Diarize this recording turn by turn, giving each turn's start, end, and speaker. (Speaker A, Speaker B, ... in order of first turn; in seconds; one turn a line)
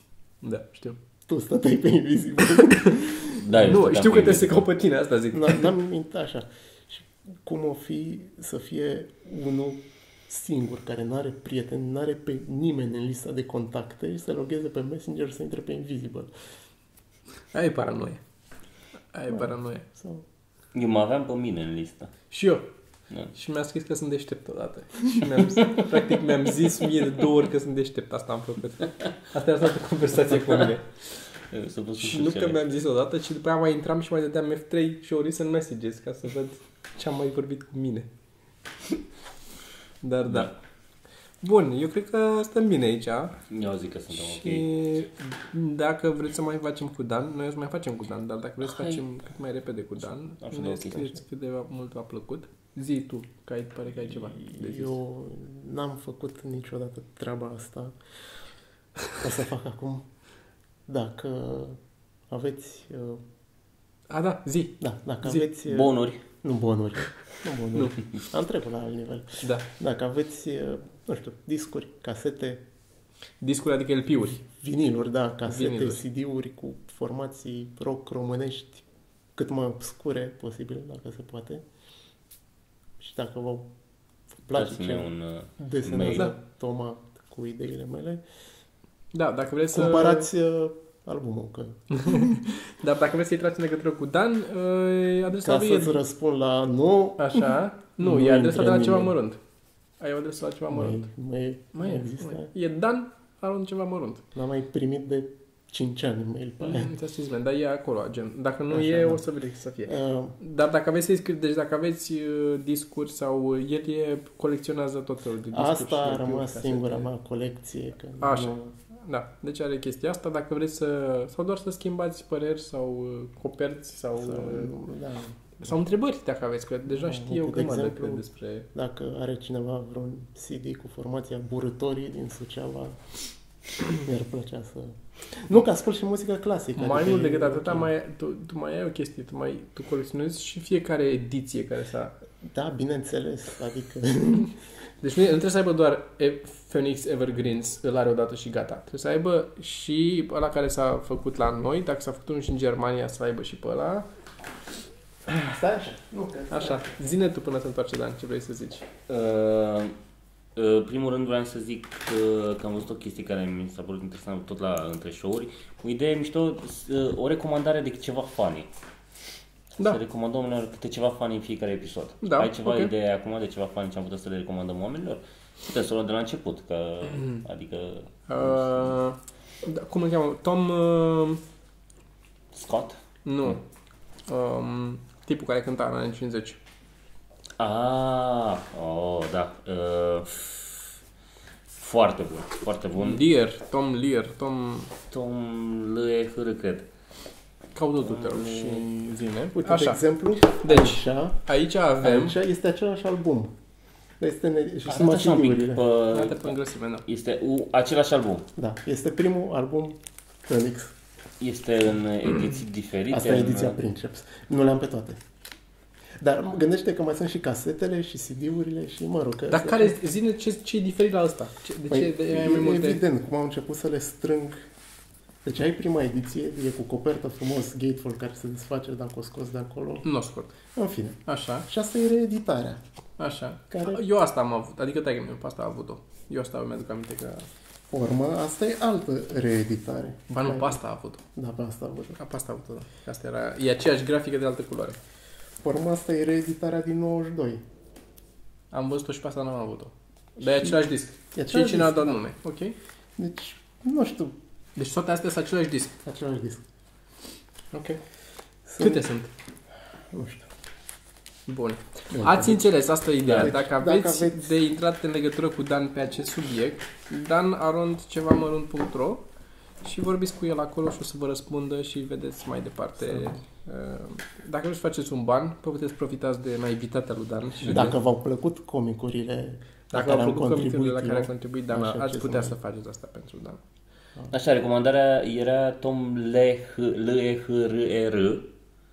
Speaker A: 0.4-1.0
Speaker B: 1.3-3.4
Speaker A: 2.7-5.7
Speaker C: 3.3-4.7
Speaker B: 5.3-16.3
Speaker A: 17.5-18.2
Speaker A: 19.1-19.9
Speaker B: 19.3-20.2
Speaker C: 20.7-22.1
Speaker A: 22.3-22.6
Speaker A: 23.3-30.9
Speaker C: 31.5-32.6
Speaker A: 32.0-38.1
Speaker A: 40.0-40.5
Speaker C: 40.3-40.5
Speaker A: 41.4-43.4
Speaker C: 43.5-44.7
Speaker A: 44.1-55.0
Speaker C: 48.6-49.0
Speaker C: 50.4-51.2
Speaker B: 54.2-57.9
Speaker B: 59.1-60.0
Speaker B: 60.9-61.8
Speaker B: 62.3-63.2
Speaker A: 64.1-65.5
Speaker B: 64.8-72.6
Speaker C: 65.6-66.2
Speaker A: 69.4-69.7
Speaker A: 73.4-74.4
Speaker B: 74.3-78.8
Speaker A: 75.5-76.0
Speaker B: 79.3-81.6
Speaker B: 83.0-83.7
Speaker B: 84.4-88.2
Speaker C: 84.5-86.3
Speaker A: 89.1-90.3
Speaker B: 89.7-92.4
Speaker A: 91.9-96.0
Speaker B: 95.4-99.2
Speaker A: 97.2-99.4
Speaker A: 100.0-101.1
Speaker B: 100.7-102.5
Speaker A: 101.7-104.2
Speaker B: 104.3-106.9
Speaker A: 106.6-117.1
Speaker B: 108.7-109.2
Speaker B: 109.8-110.3
Speaker B: 115.5-118.7
Speaker A: 118.2-124.8
Speaker B: 124.2-125.5
Speaker A: 125.6-128.7
Speaker B: 126.9-133.0
Speaker B: 133.8-137.9
Speaker A: 136.8-142.2
Speaker B: 142.4-144.5
Speaker A: 145.0-154.1
Speaker B: 155.3-156.9
Speaker A: 156.5-158.8
Speaker C: 159.1-159.9
Speaker C: 160.6-168.7
Speaker C: 169.8-178.9
Speaker A: 172.2-172.9
Speaker A: 177.1-177.4
Speaker A: 178.3-181.4
Speaker C: 182.5-183.0
Speaker A: 183.2-183.6
Speaker A: 184.3-186.6
Speaker C: 187.6-190.9
Speaker C: 191.7-193.2
Speaker A: 192.9-194.9
Speaker C: 195.1-196.9
Speaker A: 197.7-202.3
Speaker C: 198.0-198.8
Speaker B: 199.5-201.4
Speaker B: 202.0-203.5
Speaker B: 204.2-205.8
Speaker C: 204.8-206.5
Speaker A: 206.1-207.0
Speaker C: 207.1-208.5
Speaker B: 208.6-210.9
Speaker C: 211.4-213.8
Speaker B: 213.1-215.2
Speaker B: 216.2-219.9
Speaker A: 219.5-223.0
Speaker B: 221.9-224.7
Speaker B: 225.4-230.1
Speaker A: 230.0-230.5
Speaker B: 230.7-232.8
Speaker A: 231.2-231.7
Speaker A: 233.2-237.5
Speaker B: 233.7-234.0
Speaker B: 237.9-240.8
Speaker A: 240.3-241.2
Speaker B: 241.3-242.2
Speaker A: 242.2-245.0
Speaker B: 245.6-247.6
Speaker A: 248.7-252.7
Speaker B: 250.4-250.8
Speaker B: 251.3-252.2
Speaker B: 253.2-254.3
Speaker A: 254.8-256.0
Speaker B: 256.0-256.6
Speaker A: 257.7-258.0
Speaker B: 258.6-259.1
Speaker A: 258.8-259.3
Speaker B: 260.1-260.5
Speaker A: 261.5-269.2
Speaker B: 262.1-262.7
Speaker C: 263.2-263.5
Speaker B: 263.2-264.5
Speaker A: 269.8-277.9
Speaker B: 273.0-273.3
Speaker B: 277.7-282.6
Speaker A: 279.9-283.6
Speaker C: 284.3-288.5